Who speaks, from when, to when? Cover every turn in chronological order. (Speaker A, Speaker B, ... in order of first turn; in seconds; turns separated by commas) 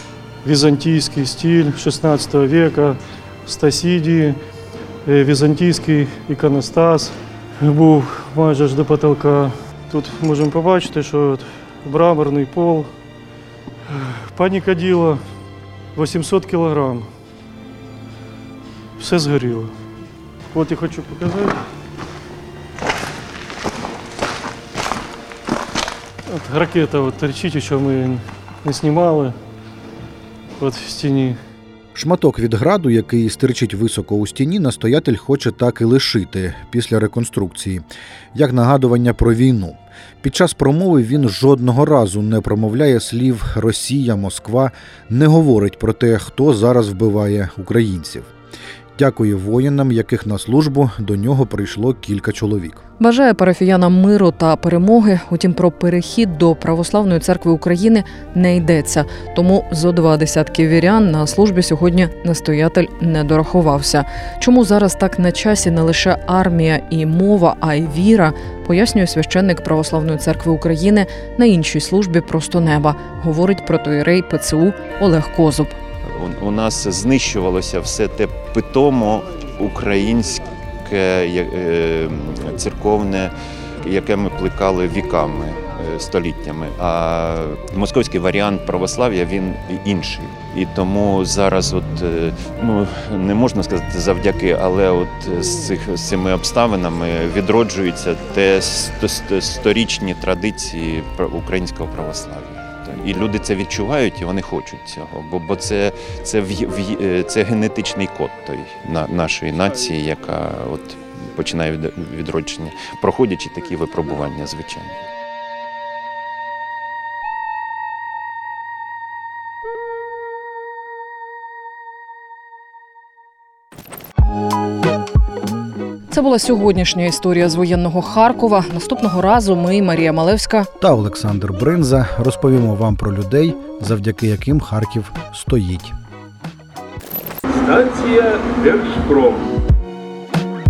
Speaker A: 0.4-4.4, Speaker A: 5.0-12.9, Speaker A: 13.9-15.2, Speaker A: 15.9-17.1, Speaker A: 19.0-19.7, Speaker A: 20.5-21.6, Speaker A: 26.3-29.4, Speaker A: 30.6-31.4, Speaker B: 31.9-48.3, Speaker B: 49.0-52.8, Speaker C: 53.0-75.8, Speaker D: 76.0-115.0, Speaker C: 126.1-130.7, Speaker B: 130.8-135.9, Speaker E: 137.5-139.5